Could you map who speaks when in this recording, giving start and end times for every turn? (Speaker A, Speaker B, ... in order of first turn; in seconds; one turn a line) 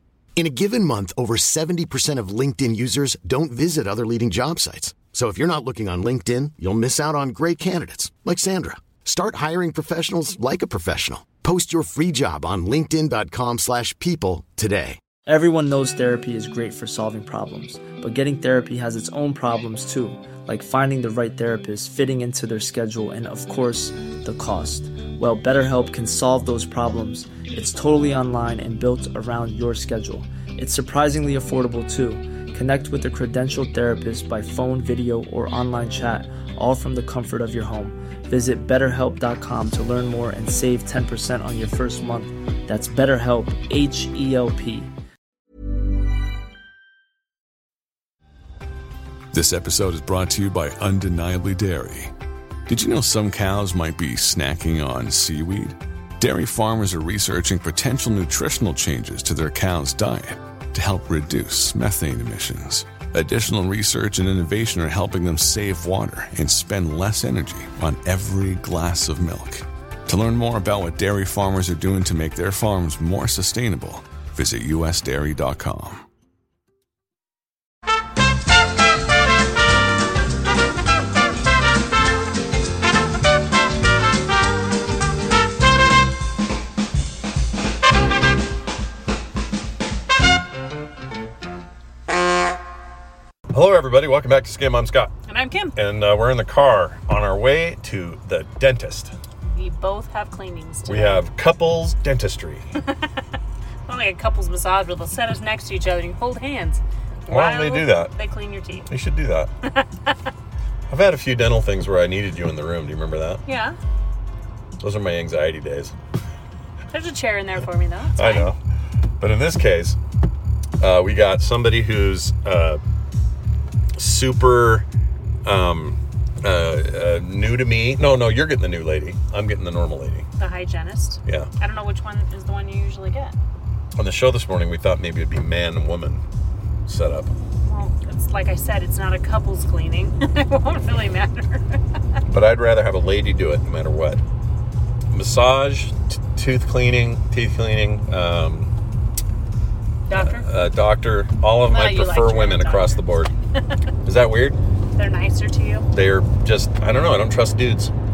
Speaker A: 0.4-14.9
Speaker B: 15.2-44.9
Speaker C: 49.3-52.1
Speaker C: 52.7-76.0
Speaker D: 93.5-95.1
Speaker E: 95.3-95.8
Speaker D: 95.8-99.1
Speaker E: 99.5-101.3
Speaker D: 100.8-102.7
Speaker E: 103.9-108.9
Speaker D: 107.3-108.1
Speaker D: 108.9-109.5
Speaker E: 109.7-110.1
Speaker D: 110.9-113.4
Speaker E: 113.5-113.8
Speaker D: 114.8-115.9
Speaker E: 116.9-118.5
Speaker D: 118.2-118.6
Speaker D: 119.2-120.0
Speaker D: 120.8-122.8
Speaker D: 124.0-124.9
Speaker D: 125.4-130.3
Speaker E: 130.4-133.3
Speaker D: 134.0-136.2
Speaker D: 136.9-137.3
Speaker E: 137.6-141.8
Speaker D: 142.3-144.2
Speaker D: 145.1-148.7
Speaker E: 150.1-150.5
Speaker D: 150.2-153.3
Speaker E: 151.6-153.2
Speaker D: 154.1-154.6
Speaker E: 154.9-155.9
Speaker D: 155.9-157.9